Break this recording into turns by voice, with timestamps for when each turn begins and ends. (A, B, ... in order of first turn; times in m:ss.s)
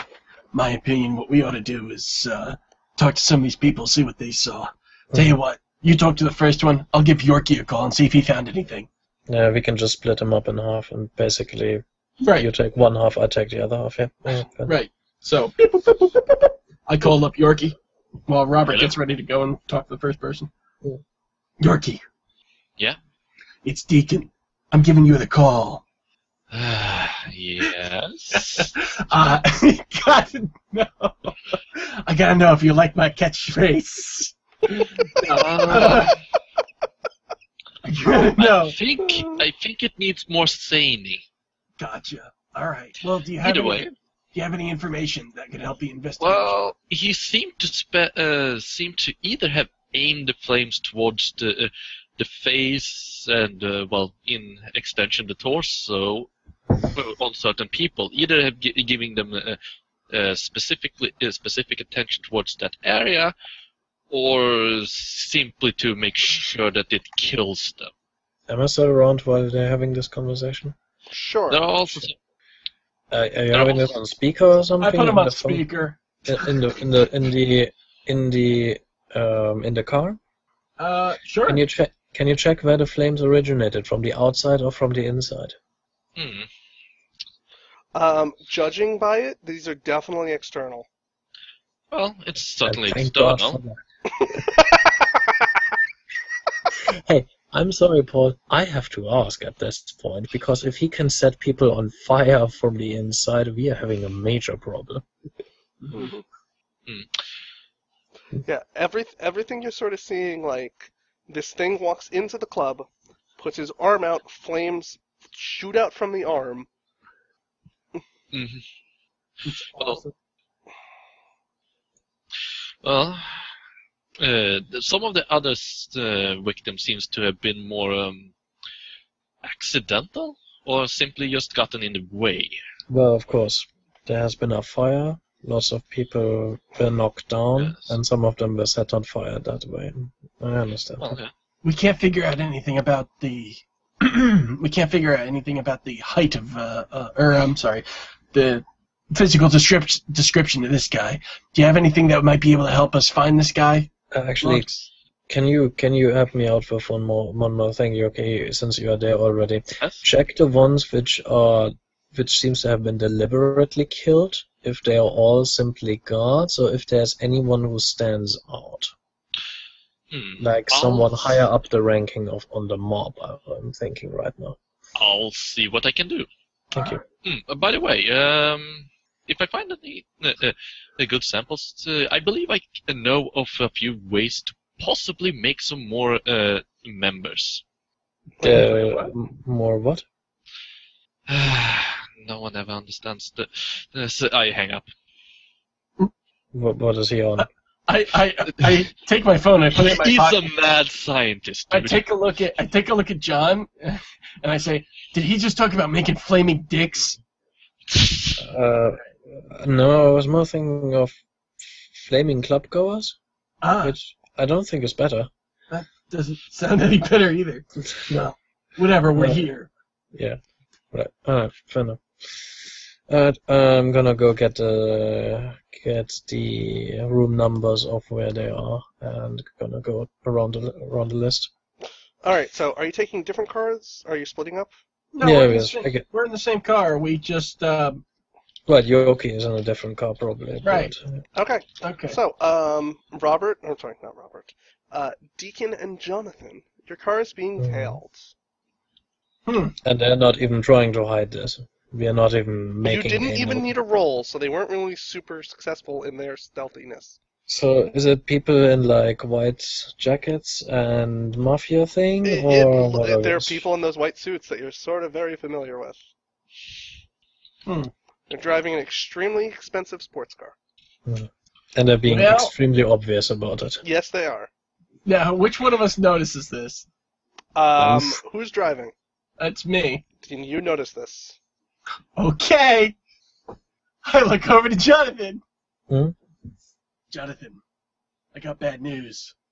0:00.5-0:08.9 A
0:05.1-0:05.4 B
0:09.3-0:14.8 B
0:12.2-0:12.5 A
0:14.7-0:20.5 A
0:18.6-0:19.0 C
0:21.6-0:22.0 A
0:23.6-0:25.8 A
0:26.5-0:28.7 C
0:28.3-0:36.2 A
0:35.3-0:36.2 C
0:37.8-0:38.8 A
0:38.4-0:41.2 C
0:41.8-0:46.6 A
0:43.4-0:43.9 C
0:46.2-0:56.3 C
0:56.9-0:59.6 C
1:00.1-1:03.3 C
1:04.1-1:07.9 C
1:08.5-1:10.8 B
1:11.1-1:11.7 D
1:11.5-1:12.2 C
1:13.1-1:15.7 B
1:13.5-1:14.0 C
1:14.8-1:16.5 A
1:16.3-1:20.2 B
1:20.8-1:21.6 A
1:21.4-1:25.6 B
1:26.2-1:26.5 C
1:28.0-1:30.9 D
1:31.9-1:33.6 C
1:32.6-1:33.8 B
1:36.9-1:45.0 B
1:45.8-1:46.1 A
1:46.0-1:46.2 D
1:48.5-1:52.9 D
1:53.4-1:56.7 D
1:58.3-1:58.6 C
1:59.4-2:00.1 A
1:59.8-2:00.0 C
2:02.8-2:03.5 C
2:04.2-2:08.3 C
2:09.4-2:12.6 C
2:12.9-2:21.2 B
2:17.6-2:18.0 C
2:21.0-2:21.3 C
2:21.6-2:33.9 A
2:34.1-2:48.9 B
2:34.4-2:34.7 A
2:50.1-2:51.4 C
2:50.4-2:54.6 B
2:55.0-2:56.3 C
2:56.7-2:57.0 B
2:57.2-3:07.6 C
3:08.4-3:10.0 B
3:08.4-3:09.1 A
3:11.3-3:14.9 C
3:16.5-3:17.5 B
3:17.4-3:20.5 A
3:19.8-3:22.1 C
3:21.7-3:27.2 A
3:28.4-3:33.2 B
3:33.6-3:34.0 A
3:33.8-3:35.3 B
3:35.7-3:39.7 A
3:38.0-3:38.3 B
3:39.1-3:39.5 B
3:40.1-3:40.4 B
3:40.9-3:51.5 B
3:52.2-3:54.7 D
3:55.1-3:58.0 A
3:55.2-3:56.0 B
3:58.7-4:01.2 B
4:00.6-4:00.9 A
4:01.4-4:08.3 D
4:01.8-4:02.2 A
4:07.6-4:08.0 B
4:09.5-4:09.8 A
4:09.8-4:13.7 B
4:12.8-4:17.2 D
4:17.5-4:23.6 B
4:22.2-4:26.0 D
4:27.6-4:27.9 A
4:28.3-4:30.6 D
4:31.1-4:33.8 B
4:32.1-4:32.5 A
4:33.8-4:34.5 D
4:35.0-4:36.9 A
4:37.6-4:38.9 D
4:37.8-4:38.2 B
4:39.4-4:40.0 A
4:40.2-4:41.4 D
4:42.2-4:43.0 A
4:44.0-4:45.4 A
4:45.9-4:46.1 B
4:47.1-4:47.6 A
4:48.3-4:49.3 A